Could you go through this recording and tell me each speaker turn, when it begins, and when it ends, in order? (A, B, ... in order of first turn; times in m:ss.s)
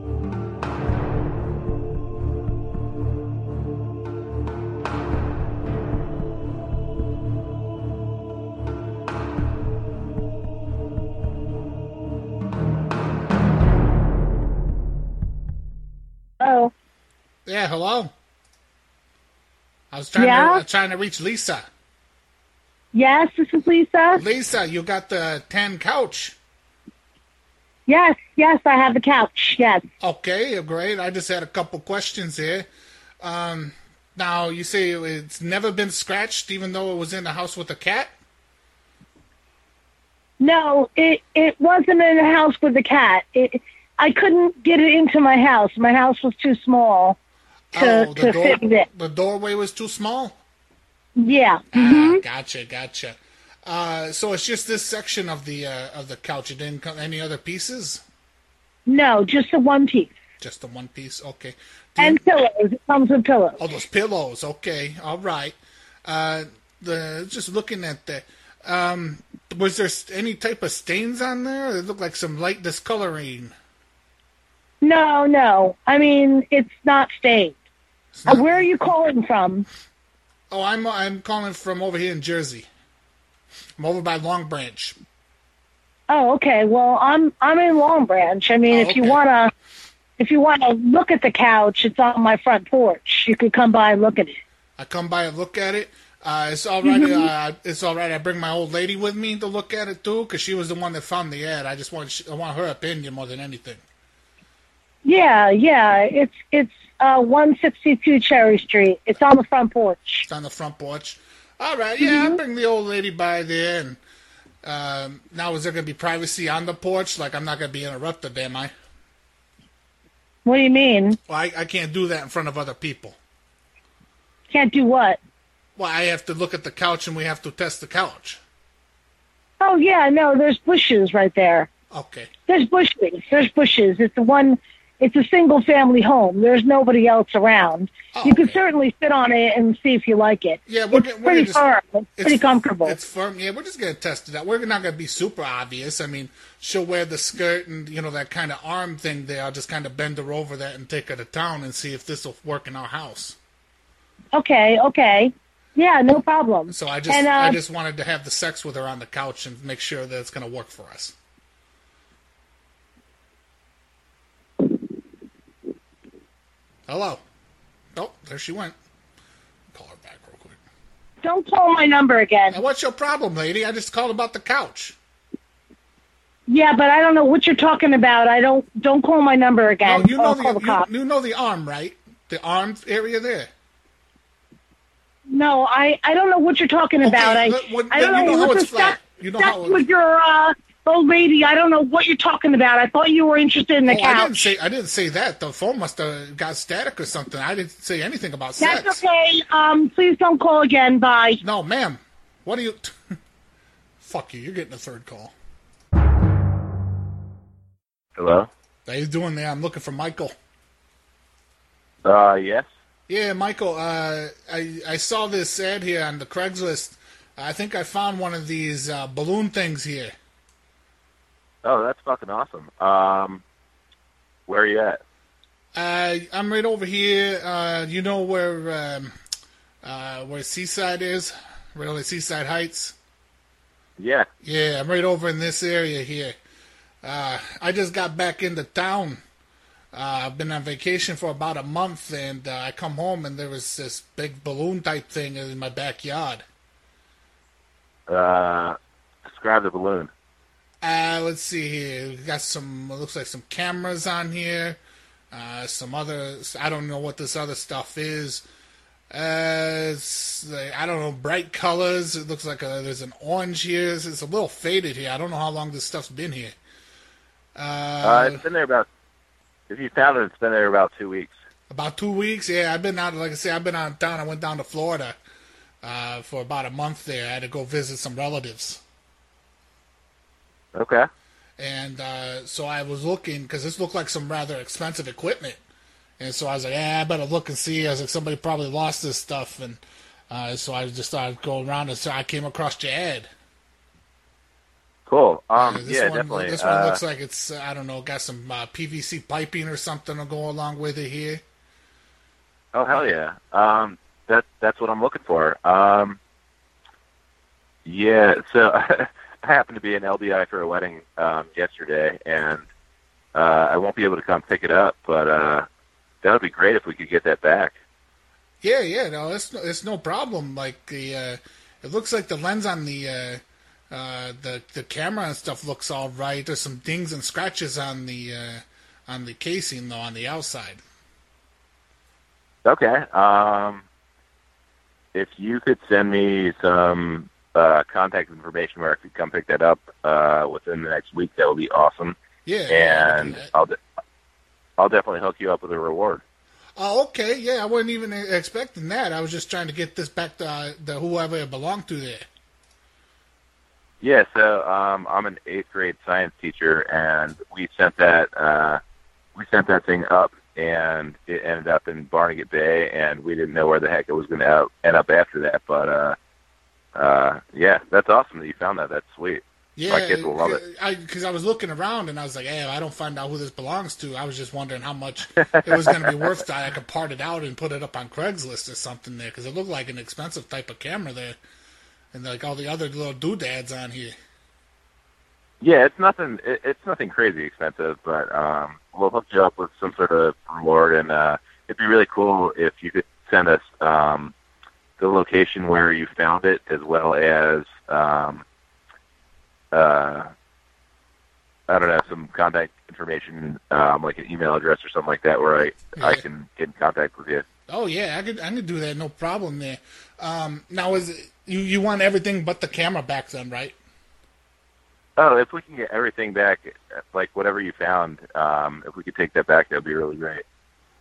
0:16.4-0:16.7 A
0:17.5-0:18.1 B
0:19.9-0:21.6 B
0:20.2-0:20.6 A
0:22.9-0:24.2 A
0:24.1-0:26.4 B
0:27.9-0:29.8 A
0:30.0-0:32.7 B
0:33.2-0:38.1 B
0:40.4-0:47.2 A
0:47.7-0:50.4 B
0:47.8-0:48.9 A
0:51.2-0:52.2 A
0:51.7-0:58.0 B
0:58.9-1:00.1 A
1:00.4-1:02.2 B
1:02.0-1:03.6 A
1:03.6-1:13.5 B
1:14.8-1:17.6 A
1:18.1-1:18.8 B
1:18.3-1:19.7 A
1:20.5-1:22.7 B
1:23.8-1:25.0 B
1:26.1-1:29.5 A
1:28.7-1:29.2 B
1:30.2-1:34.4 A
1:34.8-1:43.8 B
1:36.8-1:37.3 A
1:45.0-1:50.3 A
1:50.3-1:54.0 B
1:52.0-1:52.4 A
1:54.6-1:58.7 B
2:00.5-2:01.2 A
2:01.3-2:03.2 B
2:04.5-2:05.2 A
2:05.8-2:08.4 B
2:09.6-2:11.7 A
2:11.9-2:12.3 B
2:12.5-2:23.0 A
2:18.1-2:18.6 B
2:20.7-2:21.6 B
2:22.2-2:33.4 B
2:34.3-2:37.6 A
2:36.7-2:41.2 B
2:46.9-2:47.2 B
2:48.0-2:48.8 B
2:49.7-2:50.6 B
2:51.2-2:52.6 A
2:52.5-2:55.0 B
2:56.5-3:00.8 A
2:59.8-3:03.5 B
3:05.3-3:14.3 A
3:07.0-3:09.8 B
3:13.8-3:19.0 B
3:18.6-3:21.4 A
3:21.4-3:23.1 B
3:24.0-3:25.3 B
3:28.2-3:28.5 C
3:28.9-3:30.3 B
3:32.0-3:32.7 C
3:33.1-3:40.1 B
3:41.6-3:43.4 C
3:44.5-3:45.0 C
3:45.8-3:49.1 B
3:49.8-3:53.0 B
3:54.0-3:54.3 C
3:54.4-3:56.4 B
3:57.0-3:59.2 B
3:59.9-4:06.4 B
4:08.1-4:08.8 C
4:09.3-4:10.1 C
4:10.8-4:14.8 B
4:15.3-4:18.4 B
4:19.1-4:26.6 B
4:27.6-4:28.4 B
4:28.0-4:28.9 C
4:29.7-4:31.3 C
4:31.7-4:35.2 B
4:35.8-4:38.8 B
4:40.8-4:41.1 C
4:41.6-4:45.6 B
4:46.2-4:53.3 B
4:55.1-4:57.0 C
4:55.6-5:01.4 B
5:02.7-5:06.2 C
5:07.8-5:12.6 C
5:13.3-5:15.7 C
5:16.2-5:17.8 C
5:18.6-5:30.8 B
5:32.6-5:33.8 C
5:35.1-5:42.2 C
5:42.4-5:43.5 B
5:42.7-5:43.8 C
5:44.8-5:46.2 C
5:46.8-5:52.3 B
5:54.0-5:58.8 C
5:59.4-6:06.2 C
6:07.0-6:10.6 C
6:09.8-6:21.4 B
6:15.4-6:16.1 C
6:22.1-6:24.2 B
6:25.6-6:34.3 C
6:35.0-6:38.4 C
6:39.7-6:40.3 C
6:41.7-6:47.5 C
6:46.0-6:46.2 B
6:47.7-6:53.8 B
6:55.2-7:00.4 C